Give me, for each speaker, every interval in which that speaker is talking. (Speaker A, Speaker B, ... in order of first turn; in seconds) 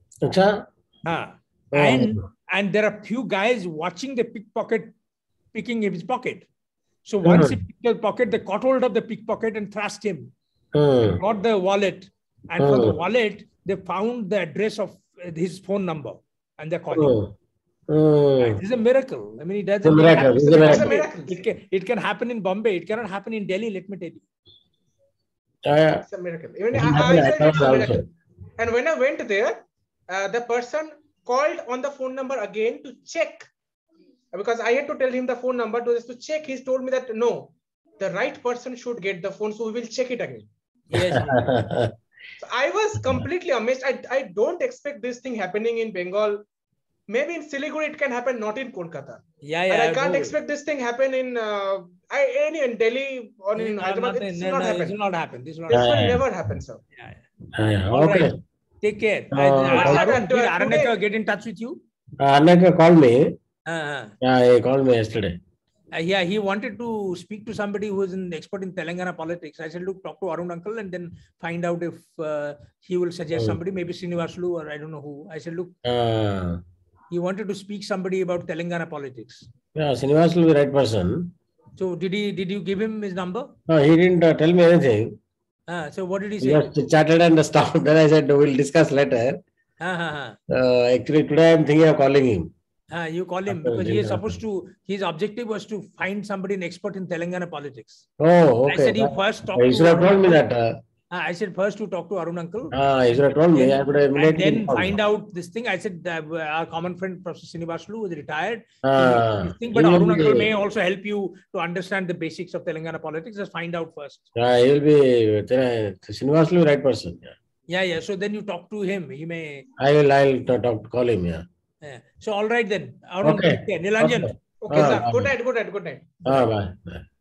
Speaker A: 0.2-0.7, 1.7-2.2, 7.2-7.6, 10.7-11.2, 12.6-13.0, 16.9-17.3, 17.9-18.6, 19.8-20.9, 25.6-26.0, 26.7-28.0, 41.0-41.9, 55.7-56.2, 57.6-58.4, 59.3-60.1, 62.2-63.3, 64.2-65.4, 73.3-73.6, 75.8-76.6, 79.7-81.3, 83.7-85.2, 86.4-89.4, 90.5-92.5, 93.5-94.4, 98.2-100.7, 102.7-105.0, 108.8-110.5, 114.3-117.3, 119.8-121.4, 123.2-125.3, 126.2-127.0
Speaker B: 1.0-4.9, 5.5-6.5, 7.0-10.3, 11.2-17.2, 18.4-24.2, 40.9-41.4, 49.4-50.3, 53.5-56.0, 57.0-57.2, 57.9-61.8, 63.7-64.1, 65.9-75.7, 77.1-79.5, 81.8-83.5, 85.7-86.7, 89.8-90.4, 92.9-98.0, 98.7-100.4, 101.1-102.7, 103.5-114.2, 117.7-119.7, 121.8-124.3
Speaker C: 20.1-21.4, 26.1-33.5, 34.3-40.5, 42.4-46.4, 47.1-55.0, 55.7-56.8, 59.7-61.0, 124.6-126.2